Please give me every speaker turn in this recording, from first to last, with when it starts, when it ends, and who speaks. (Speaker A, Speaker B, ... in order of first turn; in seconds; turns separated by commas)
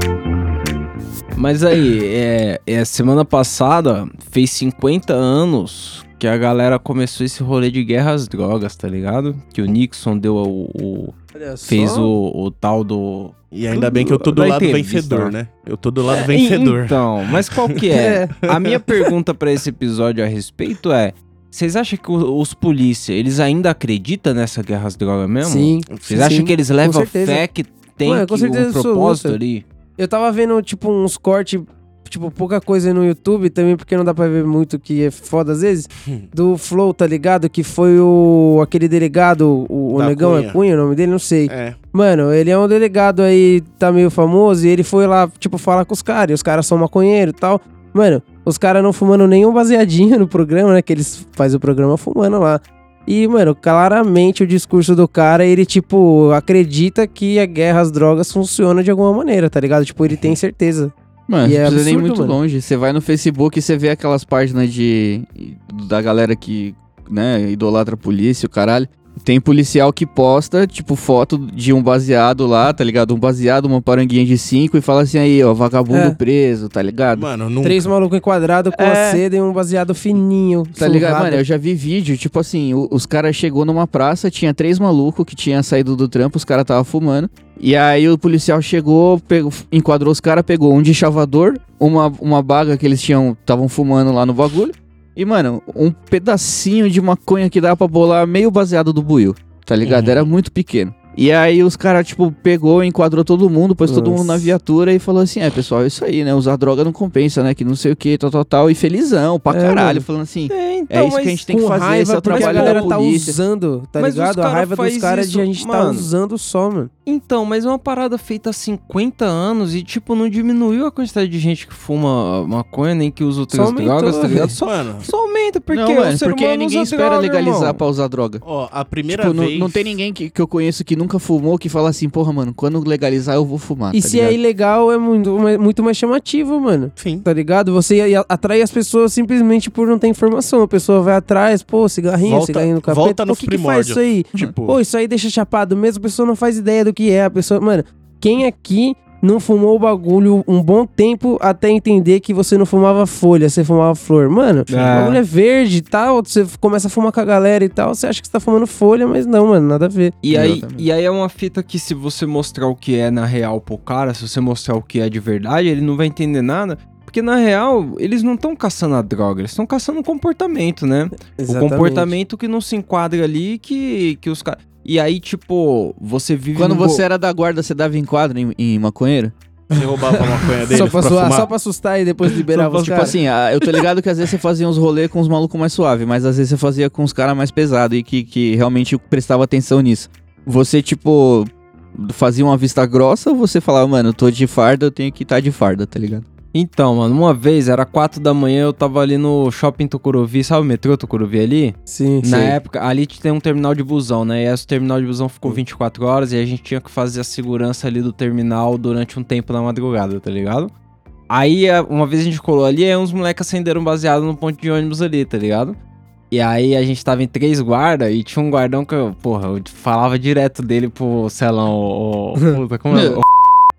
Speaker A: 1.4-11.1, Speaker B: 11.3-12.1, Speaker A: 11.7-15.3, Speaker C: 13.5-17.3, Speaker A: 16.1-29.6, Speaker B: 17.9-18.3, Speaker B: 25.4-27.4, Speaker C: 25.9-26.3, Speaker B: 28.0-29.4, Speaker B: 30.0-62.4, Speaker C: 39.9-40.6, Speaker C: 41.5-41.8, Speaker D: 61.3-77.3, Speaker B: 75.9-76.2, Speaker C: 77.1-77.9, Speaker B: 77.6-81.4, Speaker D: 78.7-79.2, Speaker D: 80.8-113.4, Speaker C: 99.8-100.3, Speaker B: 103.8-104.5, Speaker B: 109.5-110.0, Speaker A: 110.5-111.5, Speaker B: 111.5-116.9, Speaker A: 112.3-113.0, Speaker A: 114.0-116.1, Speaker A: 117.0-127.8, Speaker B: 123.5-124.5, Speaker C: 124.6-125.1, Speaker D: 125.7-128.4, Speaker C: 128.4-129.9, Speaker D: 129.1-134.4, Speaker B: 133.9-160.2, Speaker C: 137.0-137.2, Speaker C: 142.2-144.8, Speaker A: 154.7-155.2, Speaker A: 160.2-177.0, Speaker D: 160.3-160.8, Speaker B: 171.4-172.1, Speaker D: 176.5-179.3, Speaker C: 179.7-181.5, Speaker B: 180.3-183.1, Speaker D: 182.5-196.2, Speaker A: 196.5-210.7, Speaker B: 201.9-202.6, Speaker A: 211.3-215.8, Speaker A: 216.3-223.2